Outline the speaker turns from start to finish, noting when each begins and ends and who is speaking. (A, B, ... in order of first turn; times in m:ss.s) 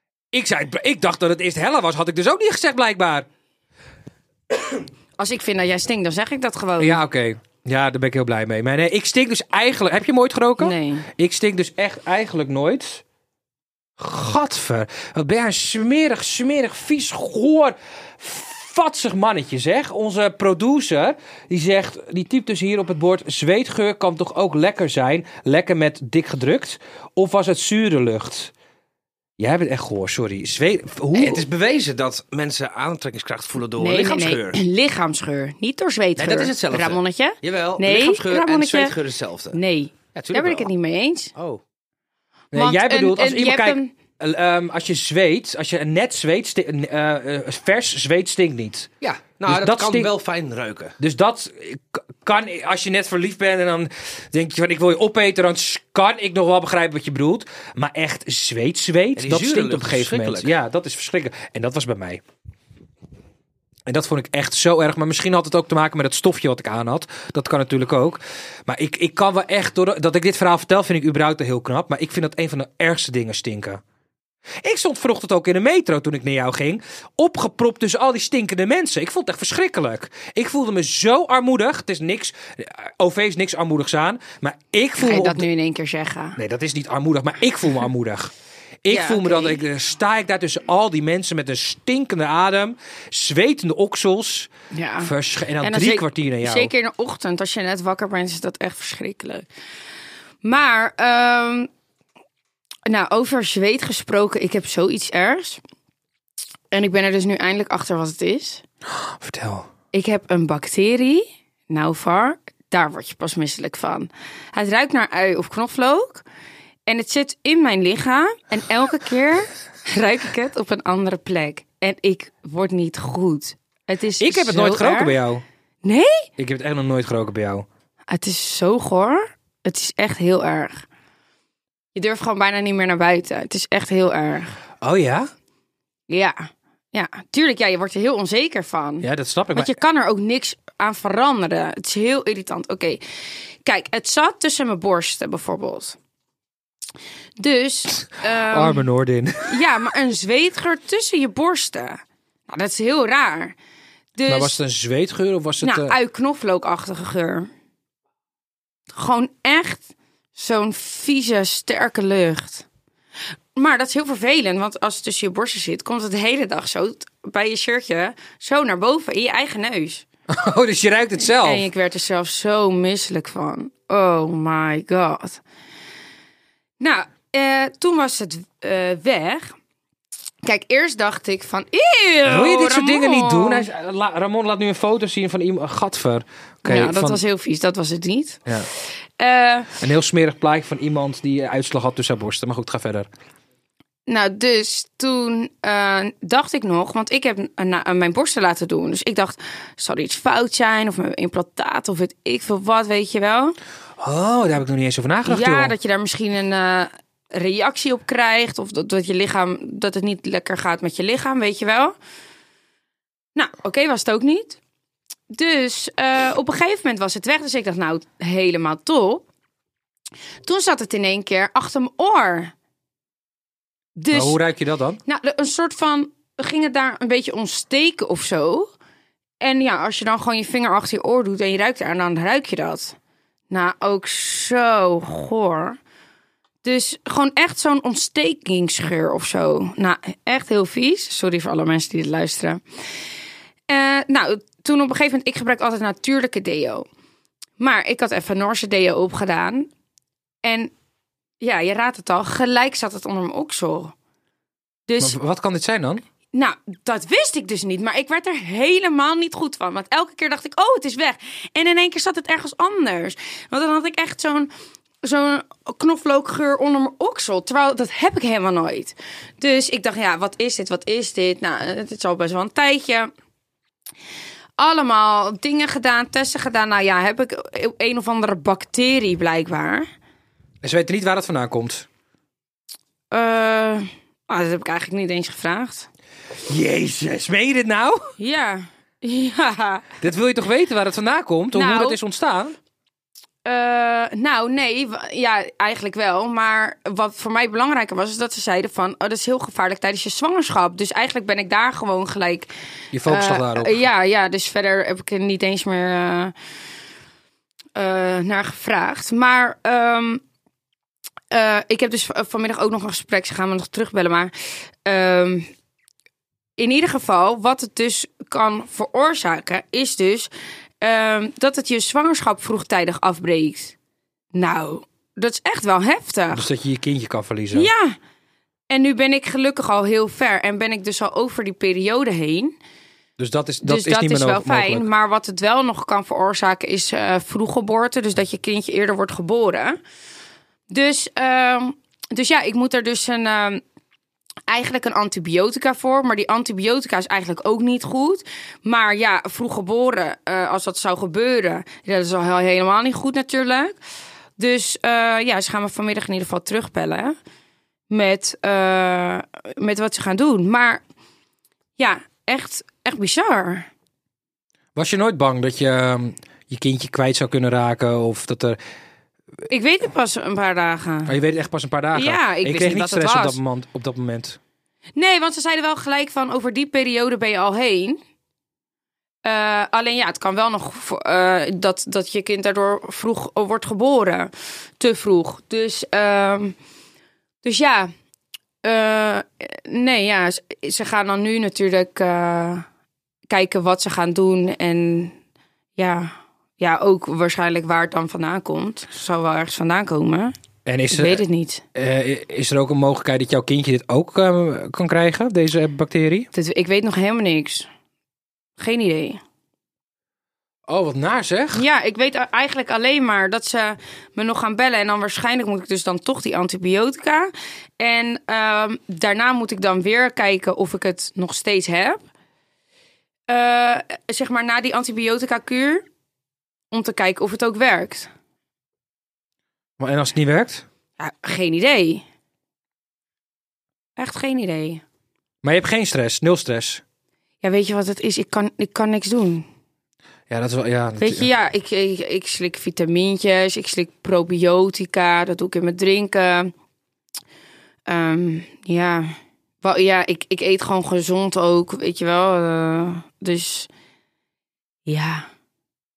0:00.3-0:03.3 A
0:05.2-0:07.0 B
0:06.8-0:13.0 A
0:10.6-0:11.1 B
0:14.0-0:28.5 A
0:29.4-0:31.5 A
0:31.1-0:34.6 C
0:33.8-0:39.0 B
0:36.2-0:39.6 C
0:39.5-0:41.3 B
0:40.2-0:40.7 C
0:41.4-0:41.6 C
0:42.5-0:48.9 A
0:42.6-0:43.9 B
0:49.0-0:51.0 C
0:49.5-0:50.1 A
0:51.0-1:02.2 A
0:59.2-1:00.5 C
1:03.9-1:13.8 A
1:14.6-1:25.5 A
1:25.0-1:26.4 B
1:26.4-1:28.3 A
1:28.8-1:34.5 A
1:28.9-1:29.6 B
1:34.7-1:39.5 B
1:35.0-1:36.7 A
1:40.4-1:41.7 B
1:42.9-1:45.6 B
1:46.7-1:48.6 B
1:49.0-1:49.7 A
1:49.9-1:56.2 B
1:56.9-2:05.2 B
2:04.2-2:05.4 A
2:05.8-2:06.3 B
2:06.4-2:07.7 A
2:08.1-2:10.8 B
2:12.0-2:14.6 B
2:14.8-2:15.3 A
2:16.1-2:23.0 B
2:19.0-2:19.8 A
2:23.6-2:26.0 B
2:27.4-2:28.8 B
2:28.5-2:29.6 A
2:29.4-2:33.6 B
2:34.2-2:34.6 B
2:34.3-2:36.0 A
2:35.6-2:37.5 B
2:38.9-2:42.7 B
2:43.6-2:50.1 B
2:50.3-2:51.7 A
2:51.3-2:55.4 B
2:56.8-2:59.6 B
3:00.4-3:03.7 B
3:02.3-3:07.2 A
3:06.6-3:08.5 B
3:09.2-3:09.8 B
3:09.8-3:13.1 A
3:14.1-3:23.6 B
3:24.0-3:25.7 A
3:25.3-3:32.0 B
3:33.4-3:34.6 B
3:35.3-3:39.2 B
3:40.4-3:42.5 B
3:44.0-3:44.4 B
3:44.1-3:45.0 A
3:45.0-3:48.7 B
3:49.4-3:53.0 B
3:53.5-3:55.8 B
3:56.6-4:02.6 B
4:03.7-4:06.9 B
4:07.6-4:09.7 B
4:10.4-4:10.7 B
4:11.4-4:13.9 B
4:14.9-4:15.2 B
4:15.0-4:16.0 A
4:16.3-4:24.5 B
4:25.0-4:33.1 B
4:34.6-4:39.9 B
4:40.6-4:41.9 A
4:43.1-4:45.9 B
4:46.5-4:48.1 A
4:48.2-4:49.9 B
4:50.0-4:52.6 A
4:51.5-4:52.0 B
4:53.4-5:02.5 B
5:02.9-5:03.8 A
5:03.1-5:06.3 B
5:07.8-5:10.2 B
5:11.3-5:14.3 B
5:14.8-5:15.5 B
5:16.6-5:20.3 B
5:20.8-5:23.8 B
5:24.3-5:26.5 B
5:26.3-5:27.7 A
5:27.5-5:28.0 B
5:28.7-5:32.6 B
5:33.2-5:34.9 A
5:33.6-5:39.8 B
5:40.7-5:43.6 B
5:44.5-5:53.8 B
5:54.4-5:57.2 B
5:57.9-6:00.8 B
6:01.8-6:03.7 B
6:04.8-6:08.6 A
6:09.5-6:11.2 B
6:11.1-6:14.4 A
6:11.9-6:13.4 B
6:15.0-6:18.0 B
6:19.2-6:26.6 B
6:27.4-6:27.9 B
6:28.6-6:32.7 B
6:33.3-6:35.2 B
6:35.8-6:40.3 B
6:40.7-6:41.2 A
6:40.9-6:41.6 B
6:41.8-6:46.3 A
6:46.3-6:47.7 B
6:48.6-6:49.2 B
6:50.7-6:51.6 A
6:51.5-7:02.0 B
7:03.3-7:05.8 B
7:06.7-7:08.1 B
7:09.8-7:10.6 A
7:11.0-7:12.0 B
7:14.0-7:14.8 B
7:15.4-7:16.8 A
7:17.4-7:19.5 B
7:20.3-7:21.3 A
7:21.0-7:26.5 B
7:27.9-7:33.7 B
7:34.9-7:35.3 B